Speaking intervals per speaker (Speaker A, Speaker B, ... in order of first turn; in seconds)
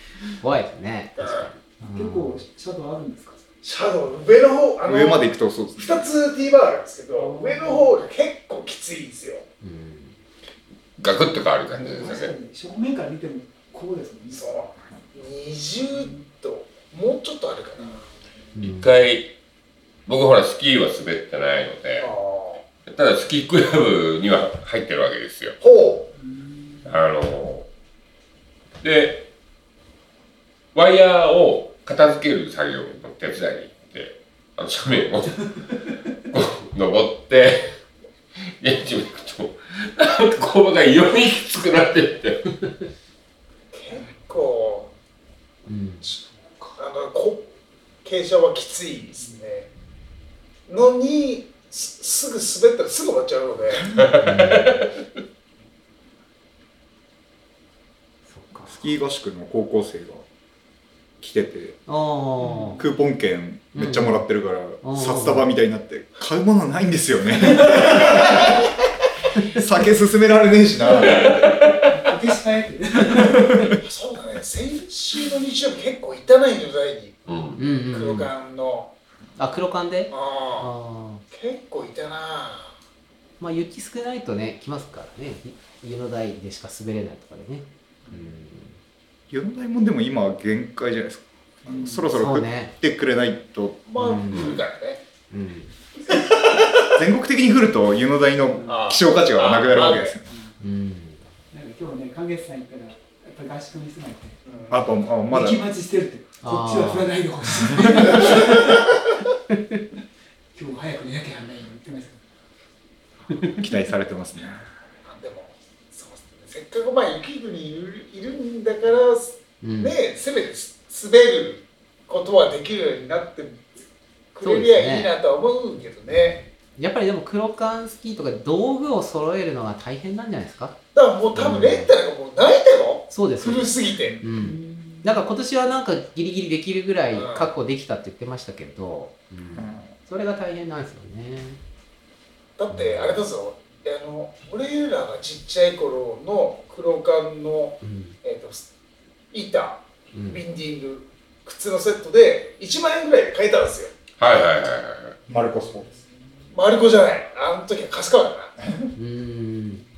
Speaker A: 0.4-2.4, 9.6-10.1, 18.5-18.9, 45.7-46.1, 54.2-54.9, 58.3-58.9, 61.9-62.8, 63.7-64.2, 64.8-65.5, 77.6-78.3, 79.4-81.2, 83.4-88.7, 92.1-92.7, 94.0-94.6, 95.3-95.7, 100.6-101.2, 106.4-108.5, 109.5-109.8, 119.6-119.9, 124.4-125.1, 126.8-130.8, 131.3-131.9, 133.1-141.6, 142.7-143.2, 147.8-148.2, 150.1-150.4, 158.9-159.8
Speaker B: 1.2-1.5, 3.6-9.4, 14.3-18.1, 22.0-22.6, 25.6-26.1, 43.7-44.9, 46.8-47.5, 48.0-49.6, 50.7-54.0, 73.8-77.2, 77.9-78.9, 80.1-80.7, 81.3-82.7, 93.8-95.0, 98.7-100.2, 104.5-104.8, 115.0-123.7, 124.3-126.5, 130.9-134.2, 137.1-137.5, 142.6-148.7, 149.3-153.9, 156.5-158.5
Speaker C: 1.8-3.4, 7.1-7.9, 11.7-14.4, 26.2-26.9, 62.5-62.9, 71.8-73.7, 88.0-88.3, 91.6-92.1, 100.3-100.5, 101.5-104.4, 105.3-108.8, 110.5-112.2, 134.3-135.2, 155.3-156.1
Speaker D: 4.8-6.0, 58.7-60.2, 61.2-61.8, 62.8-68.7, 69.5-71.4, 73.4-73.7, 89.3-93.8, 96.9-100.2, 104.7-105.6, 113.6-114.6, 139.5-139.9, 155.3-155.8
Speaker E: 11.0-12.3, 18.6-19.3, 20.1-22.1, 22.9-25.6, 26.8-27.7, 28.8-29.3, 30.7-37.7, 38.4-42.5, 53.9-54.9, 71.0-71.8, 77.3-77.6, 94.3-94.6, 154.2-155.2